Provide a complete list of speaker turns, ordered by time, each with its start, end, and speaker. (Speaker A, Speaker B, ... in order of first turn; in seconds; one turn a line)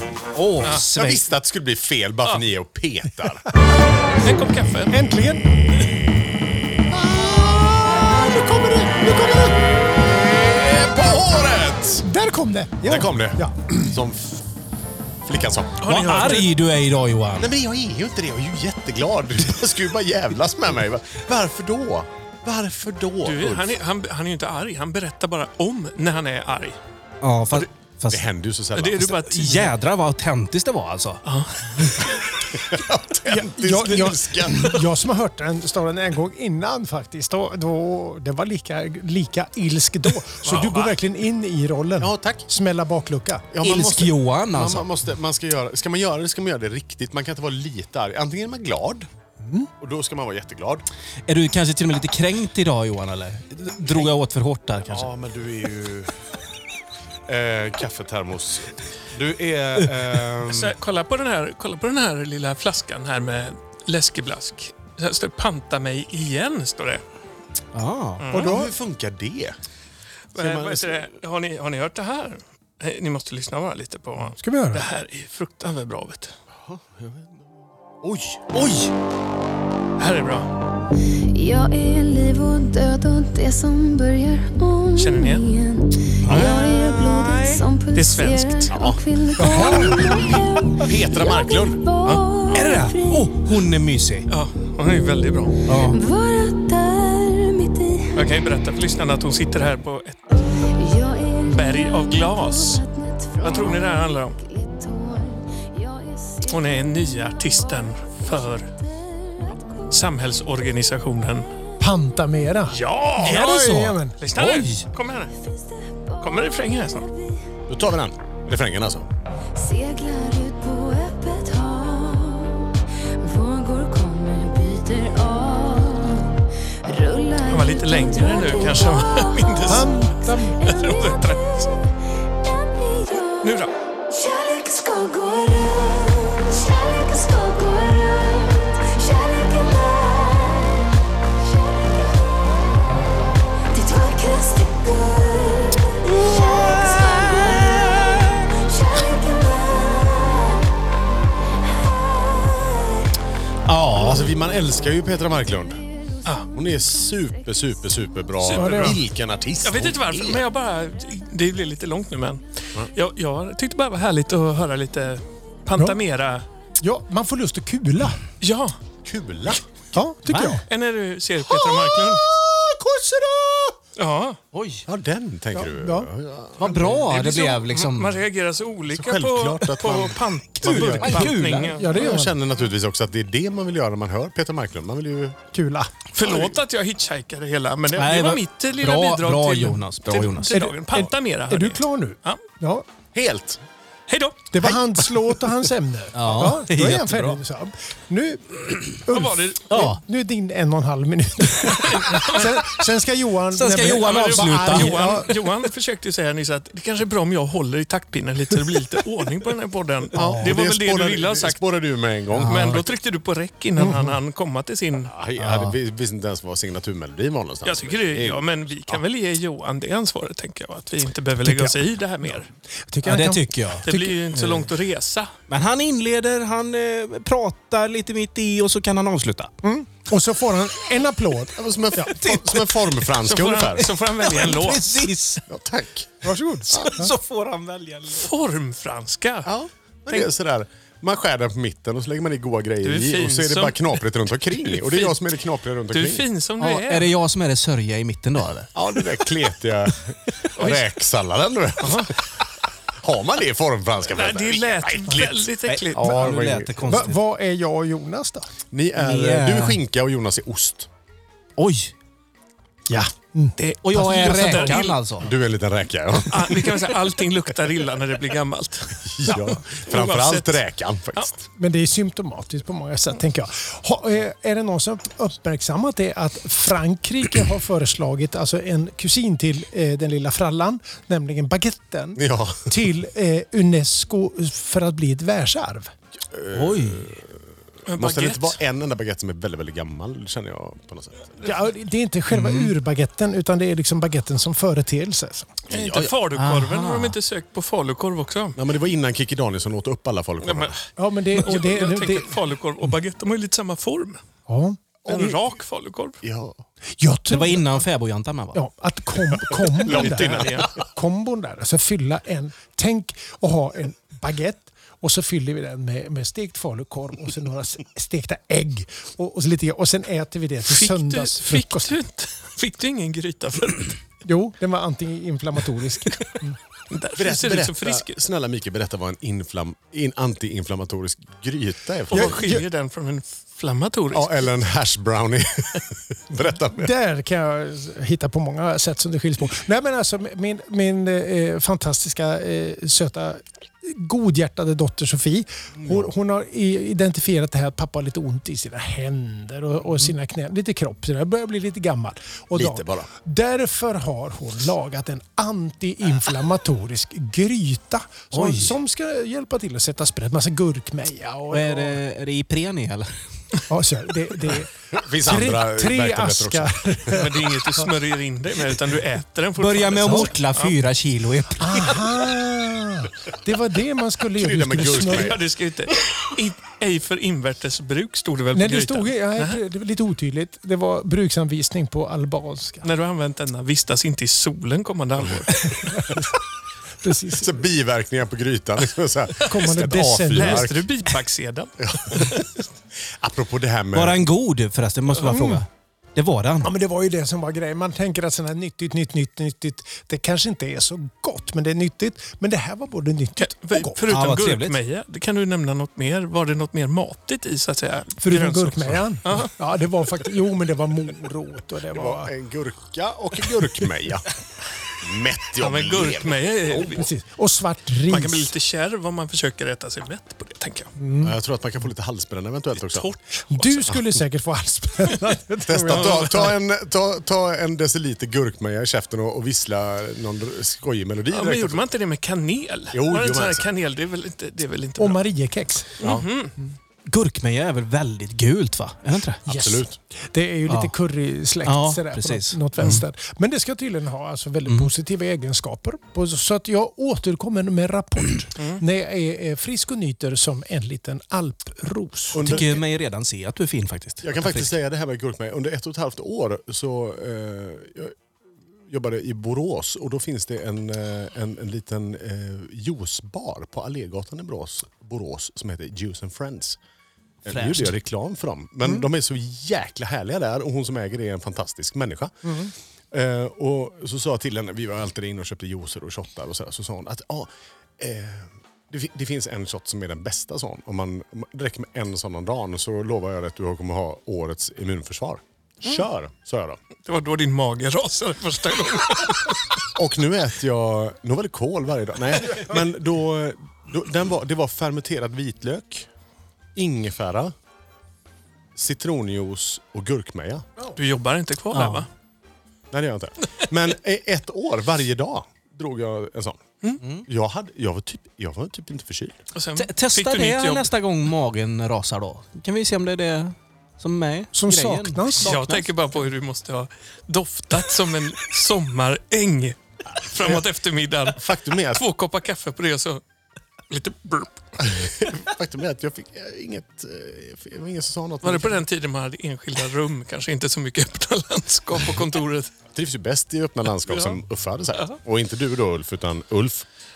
Speaker A: 0.3-1.2
Speaker B: 0.9-3.5
Speaker C: 4.2-5.0
Speaker D: 4.9-5.4
Speaker B: 6.9-12.1
Speaker D: 12.0-14.0
Speaker B: 12.8-14.5
Speaker B: 15.2-15.8
Speaker C: 15.8-16.5
Speaker A: 15.9-17.5
Speaker B: 17.3-23.8
Speaker C: 23.2-26.8
Speaker A: 27.2-28.2
Speaker B: 27.5-29.2
Speaker C: 28.8-29.7
Speaker A: 29.2-31.2
Speaker C: 31.2-32.3
Speaker B: 32.5-34.8
Speaker D: 33.3-43.5
Speaker C: 40.4-41.0
Speaker B: 42.0-42.5
Speaker B: 43.5-49.1
Speaker A: 43.6-44.9
Speaker D: 49.5-49.7
Speaker B: 49.8-50.9
Speaker A: 51.3-55.1
Speaker B: 54.9-56.1
Speaker B: 57.3-60.7
Speaker C: 60.5-67.0
Speaker A: 67.7-68.2
Speaker C: 68.2-68.5
Speaker D: 68.3-68.7
Speaker B: 68.3-69.5
Speaker C: 70.3-76.3
Speaker B: 70.3-71.1
Speaker D: 74.4-74.8
Speaker B: 76.6-77.5
Speaker B: 78.0-78.5
Speaker A: 78.5-78.9
Speaker C: 80.0-80.5
Speaker E: 81.3-93.5
Speaker C: 85.0-85.5
Speaker A: 86.2-86.6
Speaker C: 87.9-88.7
Speaker B: 88.7-92.8
Speaker D: 89.4-89.8
Speaker A: 92.5-94.3
Speaker C: 94.3-95.6
Speaker A: 95.7-96.0
Speaker E: 95.7-98.2
Speaker C: 98.1-100.2
Speaker E: 100.3-110.2
Speaker C: 101.5-102.8
Speaker C: 103.4-104.4
Speaker C: 106.5-108.7
Speaker C: 109.9-111.5
Speaker D: 111.8-114.2
Speaker C: 112.6-113.4
Speaker B: 113.2-114.0
Speaker C: 114.2-115.3
Speaker A: 114.3-114.8
Speaker E: 115.4-117.6
Speaker C: 116.2-117.1
Speaker B: 117.7-119.1
Speaker E: 119.5-143.1
Speaker C: 127.5-130.1
Speaker D: 129.7-130.6
Speaker C: 130.6-131.7
Speaker C: 133.4-133.7
Speaker E: 143.7-150.7
Speaker A: 146.0-148.4
Speaker E: 151.6-153.2
Speaker A: 153.7-154.3
Speaker B: 153.9-155.8
Speaker E: 155.7-158.3
Speaker B: 156.5-160.4
Speaker C: 158.4-159.0
Speaker D: 158.5-159.0
Speaker C: 159.6-166.4
Speaker D: 166.8-168.2
Speaker C: 168.4-168.8
Speaker B: 169.0-169.6
Speaker D: 169.9-170.6
Speaker A: 170.3-170.6
Speaker C: 170.7-172.2
Speaker D: 172.3-173.8
Speaker C: 173.9-174.4
Speaker A: 174.5-174.8
Speaker B: 174.8-177.0
Speaker D: 175.5-176.1
Speaker A: 176.6-178.2
Speaker C: 176.8-182.1
Speaker B: 178.9-181.3
Speaker A: 180.6-181.8
Speaker D: 181.7-182.4
Speaker B: 181.9-185.5
Speaker D: 185.5-185.9
Speaker C: 186.1-192.4
Speaker B: 186.2-186.5
Speaker A: 187.9-190.5
Speaker D: 190.5-192.8
Speaker B: 193.1-193.6
Speaker C: 194.1-195.1
Speaker D: 194.5-205.5
Speaker A: 196.1-197.4
Speaker C: 199.1-199.7
Speaker A: 199.7-200.0
Speaker C: 201.7-202.7
Speaker A: 203.5-205.2
Speaker C: 203.8-211.6
Speaker D: 210.1-210.5
Speaker B: 210.1-212.8
Speaker A: 212.3-212.8
Speaker C: 212.4-215.1
Speaker D: 213.8-214.2
Speaker B: 215.0-219.0
Speaker A: 215.4-215.8
Speaker C: 217.6-222.5
Speaker D: 221.4-221.8
Speaker D: 222.9-224.1
Speaker A: 223.0-223.9
Speaker C: 223.8-225.3
Speaker A: 225.5-229.5
Speaker D: 229.6-232.2
Speaker B: 231.5-234.0
Speaker A: 232.1-232.8
Speaker C: 233.2-235.0
Speaker A: 233.8-235.4
Speaker B: 235.5-236.9
Speaker D: 236.2-237.1
Speaker A: 236.8-238.3
Speaker C: 238.1-239.5
Speaker B: 239.4-246.2
Speaker C: 242.8-244.0
Speaker C: 244.7-245.2
Speaker C: 245.9-247.1
Speaker A: 246.6-248.7
Speaker B: 248.7-252.2
Speaker C: 250.6-250.8
Speaker C: 251.8-252.2
Speaker B: 253.0-257.0
Speaker C: 254.1-256.1
Speaker A: 255.7-257.2
Speaker D: 256.8-258.5
Speaker B: 258.7-260.9
Speaker A: 259.0-259.8
Speaker A: 261.6-261.9
Speaker D: 262.9-264.8
Speaker C: 263.6-265.0
Speaker A: 263.8-265.3
Speaker B: 265.2-266.9
Speaker C: 266.3-270.6
Speaker B: 269.0-271.4
Speaker D: 271.6-285.9
Speaker B: 282.1-282.8
Speaker B: 286.3-291.6
Speaker A: 286.5-287.1
Speaker C: 287.9-288.6
Speaker D: 291.4-295.5
Speaker A: 292.3-292.7
Speaker B: 295.7-296.1
Speaker C: 295.7-298.6
Speaker A: 296.3-297.2
Speaker B: 298.6-300.8
Speaker C: 300.4-304.2
Speaker D: 301.0-302.3
Speaker D: 304.5-305.4
Speaker B: 305.1-305.4
Speaker C: 305.1-306.2
Speaker B: 306.2-306.6
Speaker D: 307.0-307.9
Speaker A: 307.3-308.6
Speaker D: 308.5-321.9
Speaker B: 309.5-310.8
Speaker C: 309.8-310.7
Speaker C: 320.7-324.0
Speaker D: 324.2-326.6
Speaker C: 326.9-328.1
Speaker B: 327.1-332.4
Speaker D: 332.1-332.6
Speaker C: 332.1-334.3
Speaker B: 334.1-336.9
Speaker D: 336.8-362.0
Speaker B: 345.8-346.1
Speaker B: 352.5-353.1
Speaker A: 358.3-358.8
Speaker A: 361.5-363.1
Speaker D: 363.7-364.7
Speaker B: 364.9-367.2
Speaker D: 365.2-367.8
Speaker C: 367.1-370.8
Speaker A: 369.6-372.1
Speaker D: 370.1-370.3
Speaker D: 371.6-375.4
Speaker B: 374.3-375.4
Speaker C: 374.8-379.6
Speaker D: 378.5-382.9
Speaker C: 382.8-385.9
Speaker D: 385.7-386.3
Speaker D: 387.0-387.6
Speaker B: 387.4-390.9
Speaker D: 389.4-390.8
Speaker C: 389.6-392.4
Speaker B: 391.8-394.2
Speaker A: 393.9-396.7
Speaker D: 395.2-395.6
Speaker D: 396.6-403.9
Speaker C: 403.4-409.5
Speaker A: 404.1-404.8
Speaker D: 408.2-412.3
Speaker B: 411.9-414.3
Speaker B: 414.9-417.1
Speaker C: 415.6-417.1
Speaker D: 416.9-418.5
Speaker C: 418.1-420.9
Speaker D: 421.0-421.4
Speaker B: 421.2-423.1
Speaker C: 422.9-423.9
Speaker D: 423.5-426.6
Speaker B: 425.6-431.9
Speaker C: 425.9-426.4
Speaker C: 431.3-435.2
Speaker B: 432.9-433.7
Speaker D: 435.0-435.9
Speaker C: 436.0-436.5
Speaker B: 436.0-436.2
Speaker A: 437.1-439.4
Speaker B: 439.4-440.0
Speaker D: 439.5-452.4
Speaker A: 440.7-440.9
Speaker A: 441.6-443.0
Speaker C: 448.6-448.8
Speaker B: 452.3-452.8
Speaker A: 452.4-454.7
Speaker B: 454.2-458.1
Speaker B: 458.9-466.8
Speaker B: 467.4-486.8
Speaker A: 467.5-467.9
Speaker D: 472.4-472.7
Speaker C: 487.1-489.6
Speaker B: 489.9-496.1
Speaker B: 496.8-497.5
Speaker B: 498.8-500.6
Speaker C: 500.9-502.1
Speaker A: 501.7-502.1
Speaker B: 502.9-506.6
Speaker A: 507.0-507.2
Speaker B: 507.2-509.4
Speaker C: 509.5-510.9
Speaker A: 509.8-515.9
Speaker D: 514.5-515.6
Speaker C: 515.4-523.2
Speaker B: 520.3-520.6
Speaker B: 521.3-522.0
Speaker C: 523.9-524.8
Speaker B: 524.8-528.8
Speaker C: 528.4-532.7
Speaker B: 532.9-536.9
Speaker C: 534.1-534.4